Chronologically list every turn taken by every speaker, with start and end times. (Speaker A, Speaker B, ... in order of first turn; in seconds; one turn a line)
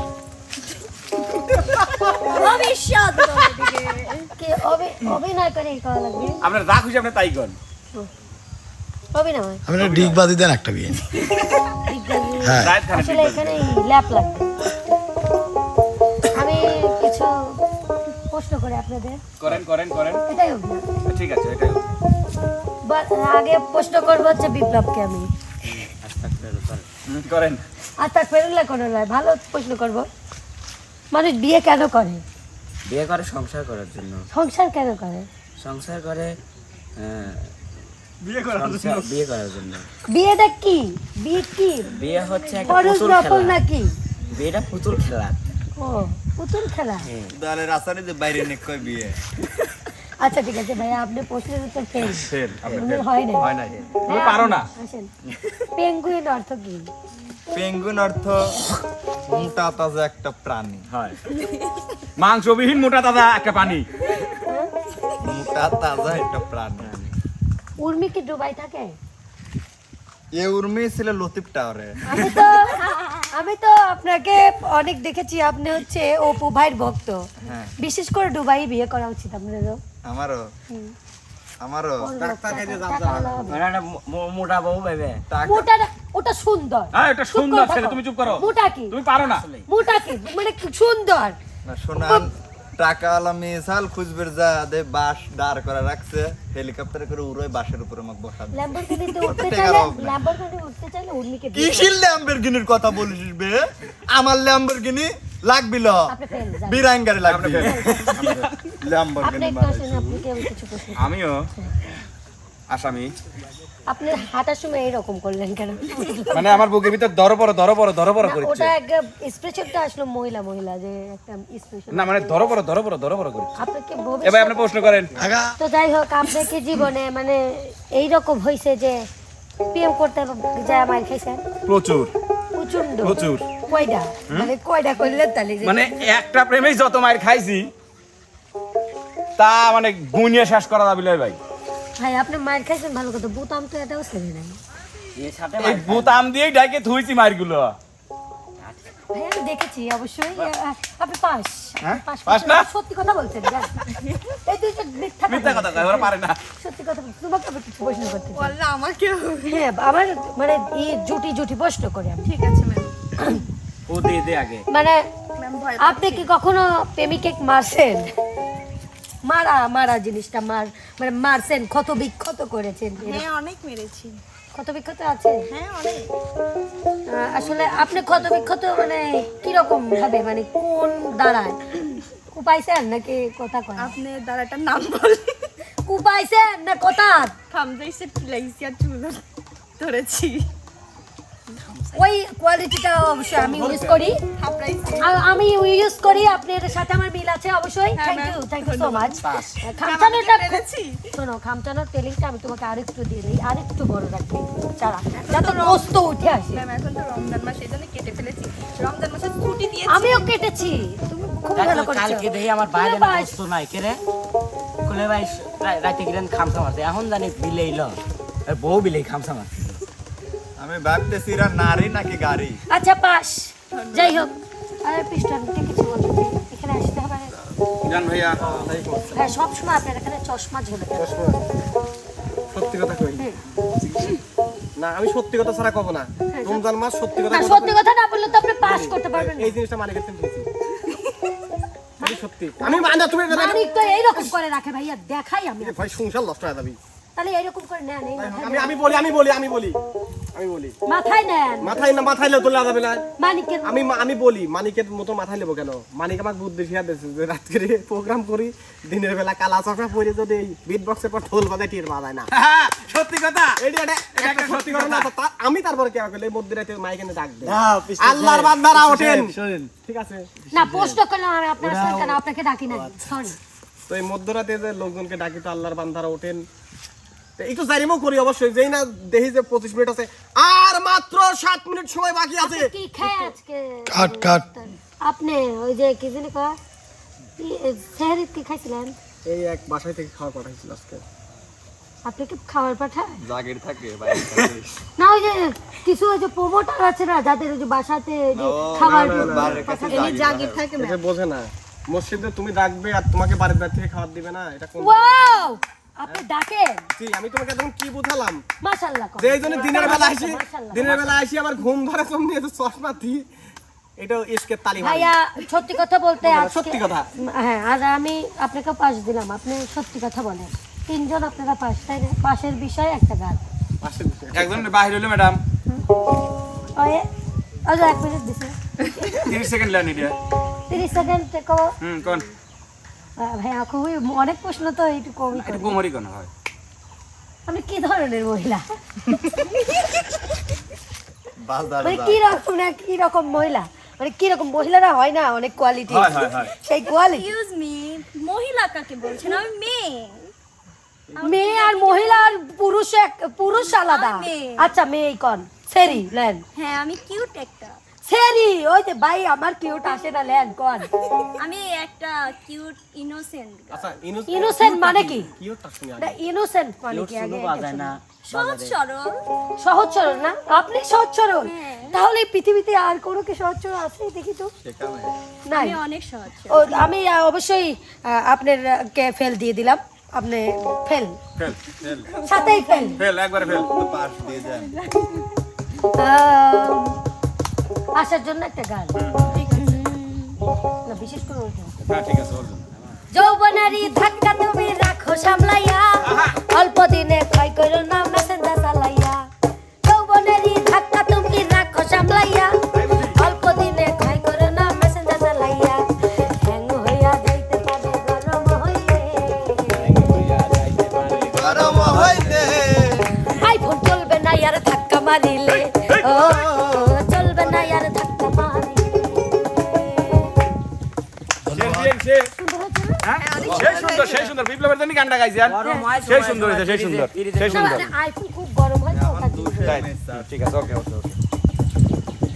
Speaker A: 2.1-4.3
Speaker B: 4.4-6.4
Speaker C: 6.4-7.6
Speaker B: 9.1-9.6
Speaker D: 9.7-11.0
Speaker C: 9.8-10.2
Speaker B: 11.9-14.5
Speaker D: 12.4-12.8
Speaker C: 12.6-13.7
Speaker B: 16.3-17.3
Speaker B: 18.3-19.2
Speaker C: 19.4-20.2
Speaker B: 20.3-20.9
Speaker C: 21.1-21.9
Speaker B: 22.9-25.3
Speaker E: 26.0-26.9
Speaker C: 27.1-27.6
Speaker B: 28.0-30.1
Speaker B: 31.1-32.2
Speaker E: 32.9-34.2
Speaker B: 34.3-35.3
Speaker E: 35.6-36.4
Speaker E: 37.0-37.5
Speaker C: 38.2-39.1
Speaker E: 38.5-39.9
Speaker B: 40.1-41.9
Speaker E: 41.9-43.6
Speaker F: 42.1-42.7
Speaker B: 42.7-43.9
Speaker E: 44.3-45.4
Speaker B: 45.8-47.1
Speaker E: 47.1-47.3
Speaker G: 47.3-49.2
Speaker B: 50.2-53.5
Speaker C: 52.0-53.0
Speaker G: 52.6-54.0
Speaker C: 54.1-54.7
Speaker B: 54.1-55.1
Speaker B: 55.8-56.9
Speaker G: 57.5-58.7
Speaker G: 59.3-60.9
Speaker C: 60.9-61.2
Speaker C: 62.2-63.9
Speaker G: 65.2-67.0
Speaker B: 67.8-69.0
Speaker G: 70.3-72.3
Speaker B: 72.1-77.3
Speaker G: 77.4-77.7
Speaker B: 77.8-79.8
Speaker G: 80.0-80.5
Speaker G: 81.6-82.1
Speaker B: 82.0-83.6
Speaker H: 82.2-83.5
Speaker E: 83.5-85.2
Speaker G: 85.3-85.7
Speaker B: 85.5-89.0
Speaker C: 86.9-89.5
Speaker B: 89.7-91.4
Speaker G: 91.7-100.2
Speaker B: 98.5-102.0
Speaker G: 101.5-106.1
Speaker B: 106.1-106.9
Speaker G: 106.7-110.2
Speaker C: 107.2-108.7
Speaker B: 107.6-108.0
Speaker B: 109.2-111.1
Speaker C: 111.0-111.5
Speaker C: 112.7-113.1
Speaker B: 113.9-116.7
Speaker C: 116.3-118.7
Speaker B: 118.2-122.3
Speaker C: 121.9-123.6
Speaker B: 123.6-125.0
Speaker C: 124.2-125.1
Speaker D: 125.2-125.5
Speaker B: 125.6-129.1
Speaker B: 129.7-131.4
Speaker C: 131.7-132.1
Speaker B: 132.6-136.2
Speaker C: 133.0-133.4
Speaker C: 135.6-137.7
Speaker C: 139.4-141.4
Speaker B: 142.0-144.6
Speaker E: 145.2-146.2
Speaker C: 145.6-147.8
Speaker E: 148.6-148.9
Speaker B: 149.1-153.7
Speaker C: 151.8-152.7
Speaker B: 154.5-158.6
Speaker C: 155.3-156.4
Speaker F: 158.4-159.6
Speaker B: 159.5-162.3
Speaker F: 162.2-162.9
Speaker E: 163.9-164.7
Speaker B: 164.7-165.0
Speaker F: 165.4-166.3
Speaker B: 165.8-168.1
Speaker B: 169.3-173.2
Speaker F: 173.0-174.2
Speaker B: 174.6-175.5
Speaker F: 175.5-176.1
Speaker B: 177.1-181.6
Speaker B: 182.3-184.0
Speaker F: 183.8-185.2
Speaker B: 185.9-187.3
Speaker F: 187.5-189.2
Speaker F: 189.8-190.5
Speaker F: 191.5-192.0
Speaker B: 191.9-194.2
Speaker F: 193.3-193.8
Speaker H: 193.6-194.0
Speaker F: 194.4-195.1
Speaker B: 195.0-200.6
Speaker F: 198.0-201.0
Speaker C: 199.2-199.5
Speaker B: 201.1-206.6
Speaker F: 205.2-205.9
Speaker F: 206.5-210.3
Speaker B: 209.9-213.4
Speaker E: 211.6-214.0
Speaker E: 214.8-219.8
Speaker G: 220.6-222.6
Speaker B: 222.7-224.3
Speaker F: 223.7-224.3
Speaker B: 224.8-227.3
Speaker C: 227.8-228.7
Speaker H: 228.4-229.2
Speaker B: 229.1-231.2
Speaker H: 230.9-231.4
Speaker H: 232.5-233.2
Speaker H: 234.8-237.8
Speaker B: 236.3-236.6
Speaker B: 237.2-239.6
Speaker H: 238.5-240.5
Speaker H: 242.0-243.7
Speaker B: 242.0-245.9
Speaker H: 245.6-246.8
Speaker B: 247.2-249.0
Speaker H: 248.2-249.8
Speaker H: 250.3-250.8
Speaker B: 250.9-252.2
Speaker H: 251.6-253.0
Speaker B: 253.2-254.0
Speaker H: 253.6-262.3
Speaker C: 262.3-263.6
Speaker H: 263.6-270.3
Speaker C: 264.1-265.1
Speaker E: 267.4-269.7
Speaker E: 270.5-271.0
Speaker B: 270.5-273.4
Speaker E: 271.6-273.0
Speaker H: 273.9-276.5
Speaker H: 277.4-282.7
Speaker B: 282.4-286.6
Speaker D: 283.9-284.4
Speaker B: 287.4-288.9
Speaker H: 289.3-291.0
Speaker B: 292.1-293.2
Speaker G: 293.2-294.8
Speaker B: 295.0-300.2
Speaker G: 298.4-300.7
Speaker H: 298.8-299.7
Speaker F: 299.6-301.0
Speaker H: 300.8-305.6
Speaker B: 304.8-306.8
Speaker H: 306.9-308.4
Speaker B: 308.6-310.9
Speaker H: 309.2-313.3
Speaker C: 310.8-311.2
Speaker H: 314.0-315.1
Speaker B: 314.8-323.4
Speaker H: 316.2-317.1
Speaker H: 323.8-324.8
Speaker C: 324.3-325.4
Speaker B: 326.8-327.1
Speaker B: 327.7-329.3
Speaker C: 329.1-330.2
Speaker B: 330.7-331.7
Speaker C: 331.8-332.3
Speaker B: 333.2-335.8
Speaker C: 335.3-336.3
Speaker B: 337.5-338.6
Speaker G: 341.4-342.2
Speaker B: 341.8-347.3
Speaker C: 345.9-346.5
Speaker A: 346.9-350.3
Speaker A: 351.2-352.1
Speaker B: 351.2-356.4
Speaker A: 353.5-354.7
Speaker A: 356.6-357.8
Speaker B: 358.1-360.9
Speaker A: 361.4-363.9
Speaker H: 363.7-366.2
Speaker B: 364.3-365.3
Speaker B: 366.0-367.9
Speaker E: 366.9-368.8
Speaker A: 368.3-369.2
Speaker B: 369.6-374.5
Speaker A: 371.4-372.0
Speaker G: 374.6-375.2
Speaker B: 375.5-375.8
Speaker A: 375.5-376.8
Speaker B: 376.5-381.2
Speaker G: 381.8-382.1
Speaker A: 382.1-382.9
Speaker B: 382.3-383.0
Speaker F: 382.4-382.8
Speaker C: 383.0-383.7
Speaker G: 383.4-384.7
Speaker B: 386.0-387.0
Speaker B: 388.0-390.2
Speaker C: 389.0-389.4
Speaker A: 389.5-390.0
Speaker B: 390.9-391.7
Speaker C: 391.9-392.7
Speaker B: 393.1-399.3
Speaker C: 396.0-396.4
Speaker B: 399.9-402.5
Speaker C: 402.7-403.2
Speaker B: 403.1-409.9
Speaker C: 409.8-412.6
Speaker G: 411.4-413.1
Speaker B: 413.4-420.1
Speaker C: 415.8-416.3
Speaker G: 416.3-416.7
Speaker D: 421.5-421.9
Speaker C: 421.6-422.3
Speaker B: 422.4-423.0
Speaker C: 423.0-427.9
Speaker F: 423.2-424.4
Speaker E: 425.5-427.9
Speaker B: 427.5-429.8
Speaker G: 428.9-430.3
Speaker C: 429.6-431.2